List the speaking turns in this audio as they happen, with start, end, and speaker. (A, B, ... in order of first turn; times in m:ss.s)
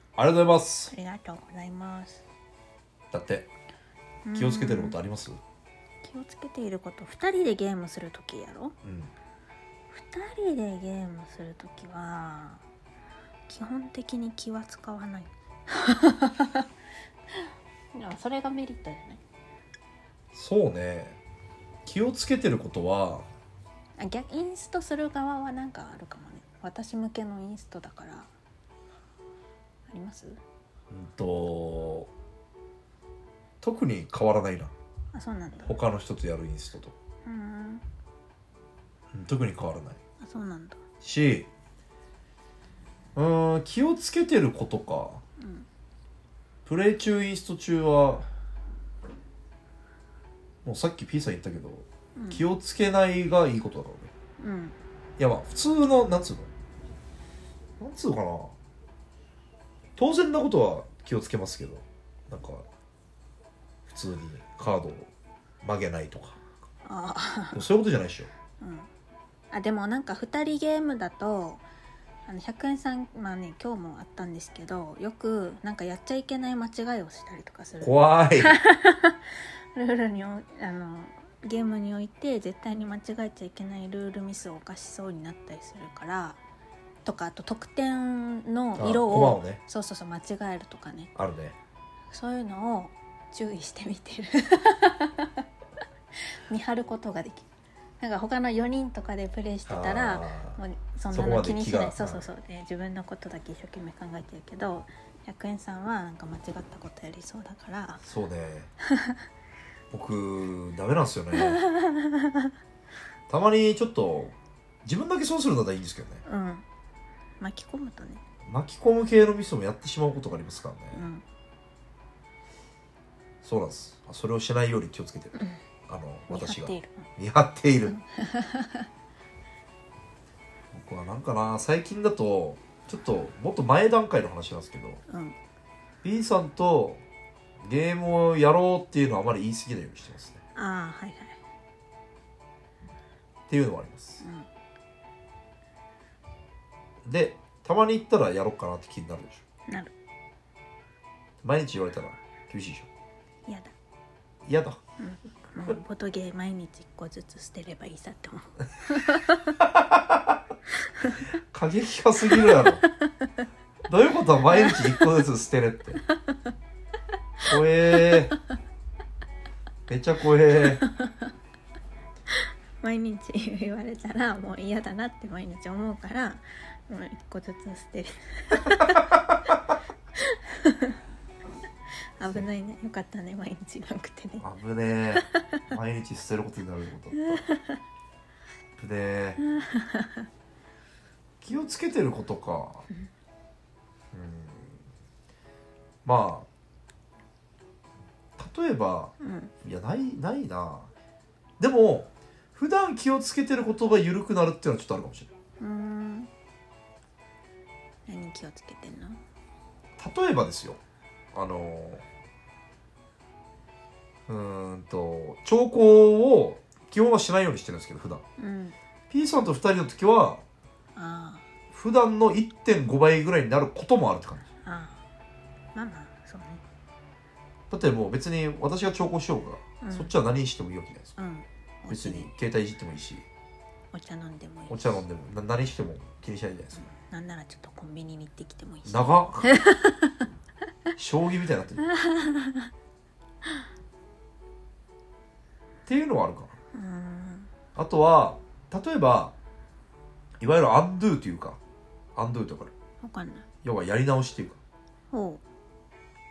0:00.2-0:00.9 A
0:00.9-0:02.2 B
0:03.1-0:03.5 A
0:04.2-0:05.0 B
0:04.3-0:05.4 A
0:06.0-0:08.8 B
0:08.8-0:09.1 A
0:09.9-0:12.6 B
0:13.5-0:16.7 B
0:17.9-0:19.2 B
0:20.3-0:21.2 A
0:21.8-0:23.3 A
0:24.0-0:28.3 B
0:29.9-0:30.4 B
0:30.9-0:32.1 A
0:33.6-0:34.7 A
0:35.1-0:35.7 B
0:35.6-0:36.9 A
0:37.2-0:37.8 B
0:39.1-0:40.0 A
0:40.2-0:40.8 B
0:41.0-0:41.5 A
0:43.1-0:45.2 A
0:45.4-0:45.7 B
0:46.6-0:48.2 A
0:50.6-0:54.1 A
0:52.2-0:52.4 B
0:54.4-0:54.8 B
0:55.2-0:56.5 A
0:57.8-0:58.5 A
1:00.0-1:02.6 A
1:03.8-1:05.1 A
1:05.6-1:06.4 A
1:06.8-1:07.6 B
1:07.5-1:08.3 A
1:08.6-1:08.9 B
1:09.5-1:11.6 B
1:12.2-1:26.4 B
1:17.8-1:18.6 A
1:27.0-1:31.1 B
1:28.8-1:29.6 A
1:31.2-1:31.6 A
1:32.1-1:35.4 B
1:36.5-1:37.5 B
1:38.0-1:48.0 B
1:39.6-1:40.6 A
1:41.1-1:42.3 A
1:48.0-1:48.7 A
1:48.9-1:49.2 B
1:49.9-1:51.6 A
1:51.3-1:52.5 B
1:53.3-1:56.2 A
1:56.2-1:56.6 B
1:57.4-1:58.2 B
1:58.4-2:01.0 A
2:00.9-2:01.2 B
2:03.4-2:08.0 A
2:06.3-2:07.1 B
2:07.9-2:08.9 B
2:10.7-2:15.0 A
2:15.1-2:15.4 B
2:16.0-2:17.0 A
2:17.6-2:20.4 A
2:20.6-2:21.4 B
2:23.5-2:24.2 A
2:24.2-2:24.5 B
2:27.0-2:29.4 A
2:31.4-2:32.9 A
2:33.5-2:33.7 B
2:34.4-2:34.8 A
2:35.0-2:39.6 B
2:39.6-2:40.4 A
2:41.4-2:42.8 A
2:42.3-2:43.4 B
2:43.9-2:46.0 A
2:44.5-2:45.0 B
2:46.0-2:46.4 B
2:47.4-2:48.4 A
2:47.9-2:48.2 B
2:49.9-2:50.8 A
2:50.8-2:51.3 B
2:52.3-2:59.2 B
3:00.2-3:01.0 B
3:02.2-3:04.4 B
3:04.4-3:07.4 A
3:05.2-3:05.5 B
3:07.3-3:07.8 B
3:08.8-3:09.4 A
3:09.4-3:10.3 B
3:11.4-3:12.8 A
3:14.1-3:14.8 A
3:16.0-3:16.5 A
3:18.4-3:20.9 A
3:19.2-3:19.5 B
3:21.6-3:25.3 A
3:25.6-3:26.3 B
3:28.0-3:29.2 B
3:30.0-3:30.8 A
3:31.3-3:32.0 A
3:34.3-3:38.2 A
3:38.4-3:38.8 B
3:39.1-3:40.4 A
3:40.9-3:41.5 B
3:41.7-3:44.5 A
3:44.6-3:45.0 B
3:45.7-3:46.6 B
3:47.7-3:51.1 A
3:49.8-3:50.1 B
3:51.2-3:52.3 B
3:51.9-3:53.2 A
3:53.9-3:55.0 B
3:54.7-3:56.9 A
3:56.7-4:00.2 B
3:58.8-3:59.5 A
4:01.0-4:01.9 A
4:01.9-4:02.7 B
4:05.9-4:06.5 A
4:06.7-4:07.5 B
4:07.7-4:09.3 A
4:10.4-4:11.6 A
4:12.2-4:12.7 A
4:13.0-4:13.5 B
4:13.6-4:14.6 A
4:15.1-4:15.4 B